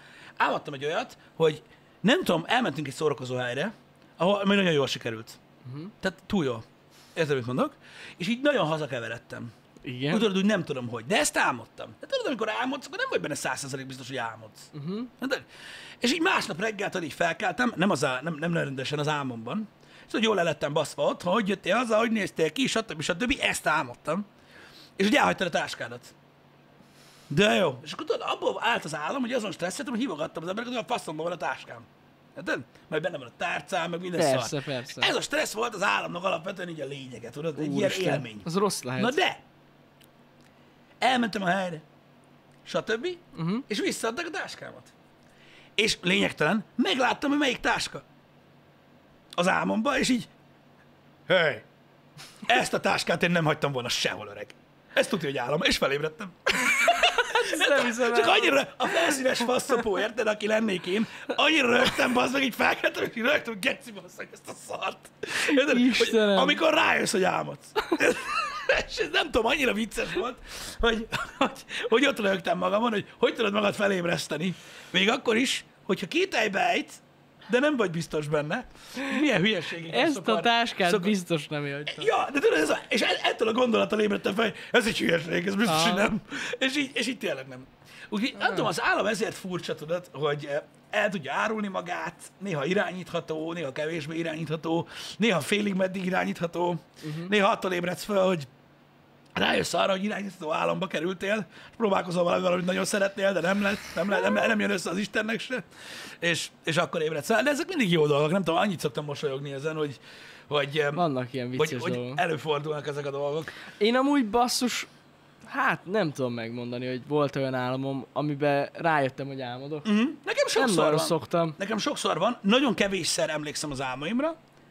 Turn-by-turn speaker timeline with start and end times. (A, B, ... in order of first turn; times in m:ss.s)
0:00.4-0:05.4 A
0:05.6-0:05.9 B
0:06.0-0:09.5 A
0:09.8-0:10.3 B
0:10.1-0:15.4 A
0:14.7-0:15.1 B
0:16.0-0:24.3 A
0:25.0-0:26.1 A
0:27.3-0:39.4 A
0:34.2-0:35.1 B
0:37.6-0:39.2 B
0:41.0-0:41.8 A
0:42.6-0:44.9 A
0:43.3-0:43.6 B
0:45.8-0:48.0 A
0:49.4-0:50.3 A
0:51.3-0:51.7 A
0:52.4-1:21.1 A
0:56.7-0:59.1 B
1:05.4-1:06.6 B
1:19.9-1:22.1 B
1:21.8-1:38.5 A
1:25.6-1:26.1 B
1:28.4-1:28.7 B
1:37.0-1:37.3 B
1:39.3-1:45.6 A
1:46.2-1:51.0 A
1:50.9-1:52.2 B
1:51.6-1:53.6 A
1:53.7-1:54.9 B
1:55.4-1:59.9 B
1:59.8-2:04.4 A
2:00.6-2:01.6 B